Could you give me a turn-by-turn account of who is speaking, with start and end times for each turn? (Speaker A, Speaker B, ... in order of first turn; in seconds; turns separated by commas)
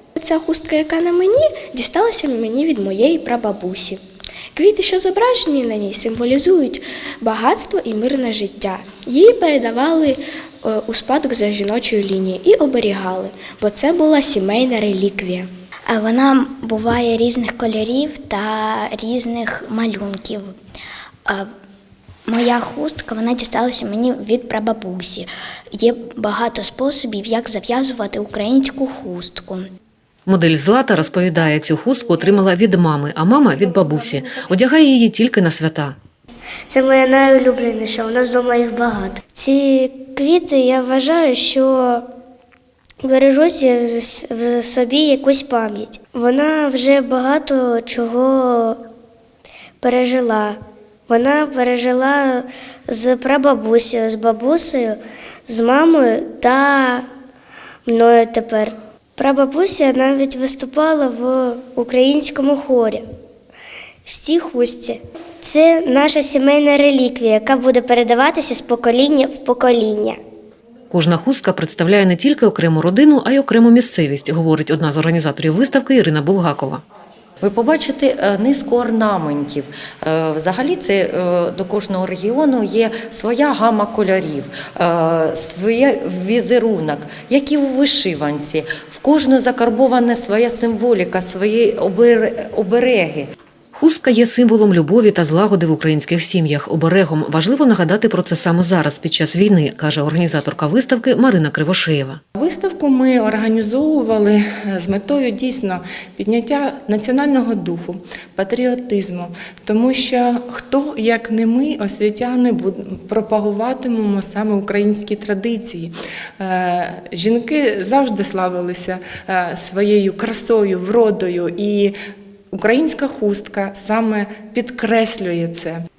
Speaker A: 0.2-4.0, Speaker A: 4.5-15.5, Speaker B: 15.9-20.6, Speaker B: 22.3-29.7, Speaker C: 30.3-36.0, Speaker D: 36.7-42.0, Speaker D: 43.0-48.8, Speaker D: 49.8-50.6, Speaker D: 51.1-57.1, Speaker D: 57.9-63.0, Speaker D: 64.1-70.2, Speaker C: 70.9-76.8, Speaker E: 77.4-93.3, Speaker C: 93.7-102.2, Speaker F: 102.4-121.9, Speaker F: 122.5-125.8